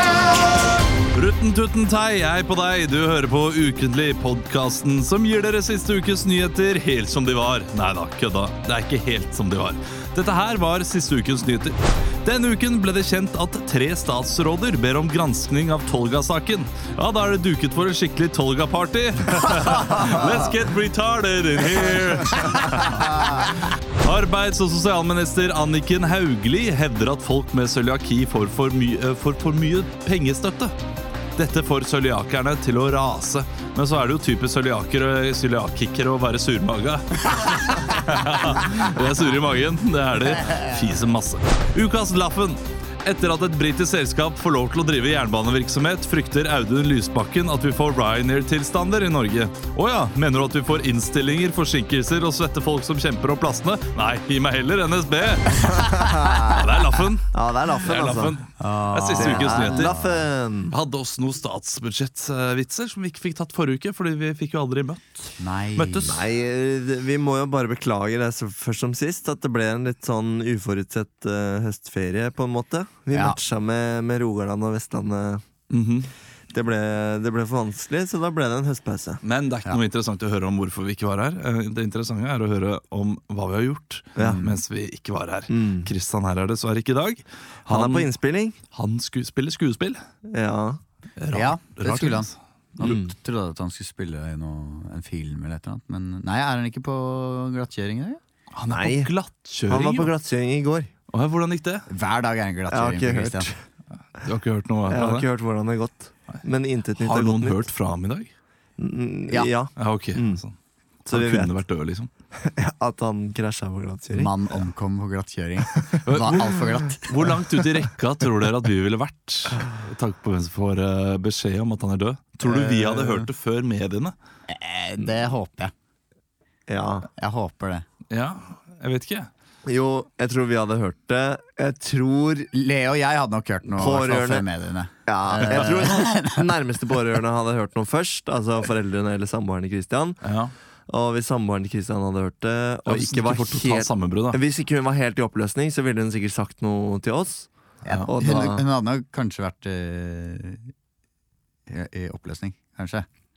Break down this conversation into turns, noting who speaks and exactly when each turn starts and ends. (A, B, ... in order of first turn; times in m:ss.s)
0:01.1-0:30.8 A
0:23.0-0:23.5 B
0:31.4-1:00.0 A
0:55.8-0:56.6 C
0:57.3-0:58.4 C
0:58.6-1:00.2 B
0:59.1-1:00.8 C
1:00.7-1:06.2 A
1:05.4-1:06.1 B
1:06.0-1:15.4 C
1:13.1-1:13.4 B
1:15.7-1:16.1 A
1:16.5-1:19.2 C
1:19.2-1:28.1 A
1:24.2-1:24.4 C
1:24.2-1:24.6 B
1:25.5-1:25.9 C
1:27.7-1:28.6 C
1:28.7-1:30.0 A
1:30.2-1:30.8 C
1:31.2-1:32.3 A
1:31.3-1:38.2 B
1:32.8-1:33.1 C
1:38.6-1:40.1 A
1:38.7-1:39.1 C
1:39.7-1:40.9 C
1:41.1-1:41.9 A
1:41.9-1:43.5 B
1:42.7-1:43.6 C
1:44.2-1:45.3 A
1:44.9-1:47.6 C
1:47.0-1:48.3 A
1:48.8-1:50.4 C
1:49.8-1:50.6 A
1:51.1-1:51.5 C
1:51.1-1:52.1 A
1:52.3-1:54.3 C
1:54.1-1:57.2 B
1:55.7-1:56.3 C
1:56.1-2:04.1 A
2:02.4-2:03.2 B
2:04.5-2:05.7 B
2:06.7-2:07.1 C
2:07.2-2:07.8 B
2:08.1-2:09.3 A
2:09.7-2:12.5 C
2:12.5-2:16.5 B
2:13.8-2:14.5 C
2:15.1-2:20.2 C
2:20.2-2:20.5 A
2:20.9-2:28.6 C
2:22.9-2:24.4 A
2:27.8-2:30.7 B
2:31.7-2:33.1 B